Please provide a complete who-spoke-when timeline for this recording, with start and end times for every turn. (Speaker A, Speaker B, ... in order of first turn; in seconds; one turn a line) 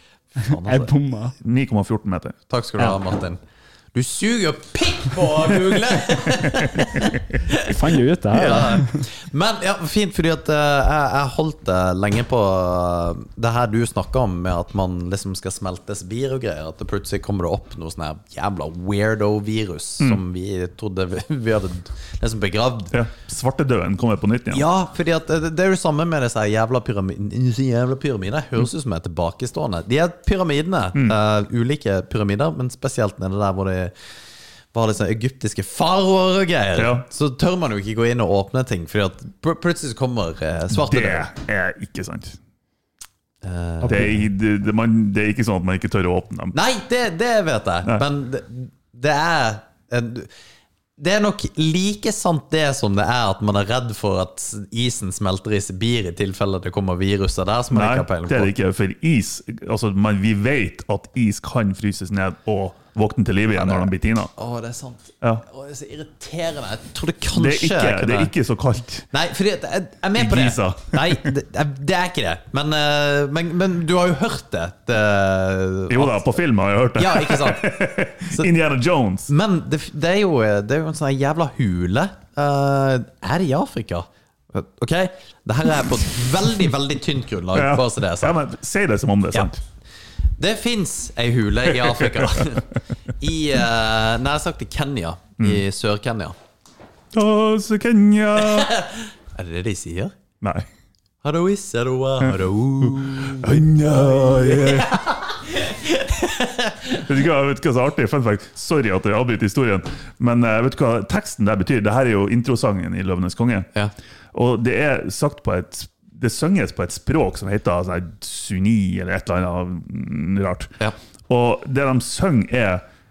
Speaker A: 0.3-0.9
Speaker B: 0.4-1.3
Speaker C: 1.4-2.4
Speaker A: 2.5-3.4
Speaker A: 3.9-7.7
Speaker C: 6.5-7.1
Speaker B: 7.5-9.0
Speaker A: 8.3-23.0
Speaker C: 22.9-24.6
Speaker A: 24.5-33.9
Speaker A: 34.7-41.3
Speaker C: 36.8-37.0
Speaker C: 40.7-42.4
Speaker A: 43.4-44.1
Speaker B: 43.8-44.1
Speaker C: 43.9-46.5
Speaker A: 46.5-50.3
Speaker A: 51.0-58.5
Speaker C: 57.7-64.3
Speaker A: 63.5-68.3
Speaker C: 67.3-69.1
Speaker A: 69.1-76.3
Speaker C: 70.1-71.3
Speaker C: 75.9-79.3
Speaker A: 77.0-78.5
Speaker A: 79.3-88.4
Speaker C: 87.5-89.6
Speaker A: 90.4-96.3
Speaker C: 91.8-92.5
Speaker C: 97.1-98.7
Speaker A: 98.4-100.1
Speaker C: 100.4-100.7
Speaker A: 101.2-107.0
Speaker C: 102.2-105.0
Speaker C: 106.9-113.7
Speaker C: 114.3-120.7
Speaker C: 121.3-122.8